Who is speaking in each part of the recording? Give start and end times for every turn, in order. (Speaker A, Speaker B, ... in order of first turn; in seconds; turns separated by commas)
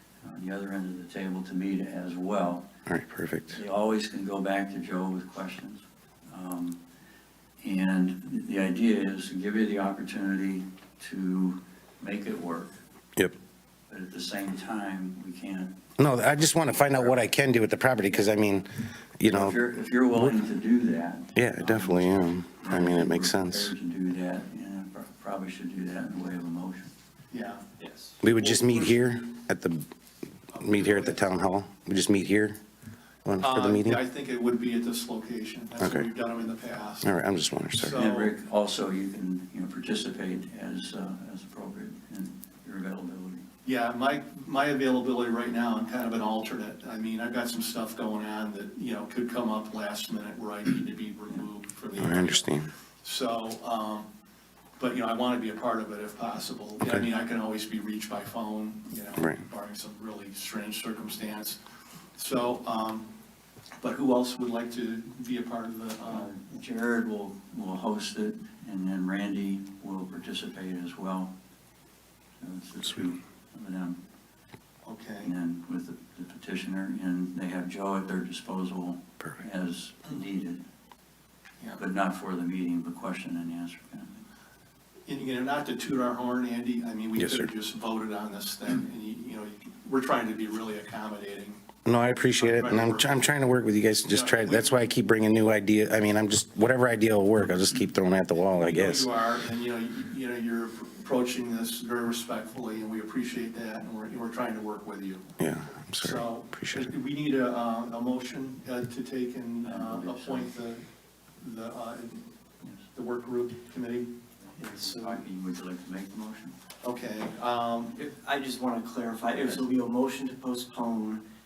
Speaker A: 0.2-2.7, Speaker B: 2.9-3.6, Speaker A: 3.5-6.8, Speaker A: 7.6-12.7, Speaker A: 13.9-15.8, Speaker B: 16.0-19.6, Speaker A: 16.6-17.1, Speaker A: 19.2-26.9, Speaker B: 21.3-23.7, Speaker C: 27.3-27.7, Speaker D: 27.8-28.1, Speaker B: 28.2-29.8, Speaker C: 28.3-28.9, Speaker C: 30.5-31.2, Speaker B: 30.6-32.6, Speaker B: 33.2-34.0, Speaker C: 33.4-37.1, Speaker B: 35.8-36.1, Speaker B: 37.0-38.0, Speaker C: 37.8-38.3, Speaker A: 37.9-43.4, Speaker C: 43.6-54.1, Speaker B: 52.0-52.7, Speaker C: 54.8-61.6, Speaker C: 62.1-63.1, Speaker C: 63.8-66.3, Speaker A: 66.1-71.3, Speaker A: 72.4-74.0, Speaker C: 74.8-75.3, Speaker A: 75.2-80.6, Speaker A: 81.8-84.2, Speaker C: 85.1-91.6, Speaker B: 87.2-87.5, Speaker B: 91.8-99.1, Speaker C: 92.3-93.3, Speaker C: 94.1-94.8, Speaker C: 98.6-105.3, Speaker B: 105.4-106.9, Speaker C: 106.0-110.8, Speaker A: 109.6-110.5, Speaker C: 111.4-112.3, Speaker C: 112.9-114.1, Speaker A: 114.4-116.5, Speaker D: 114.6-115.2, Speaker C: 116.8-118.0, Speaker D: 117.9-121.2, Speaker A: 119.4-119.7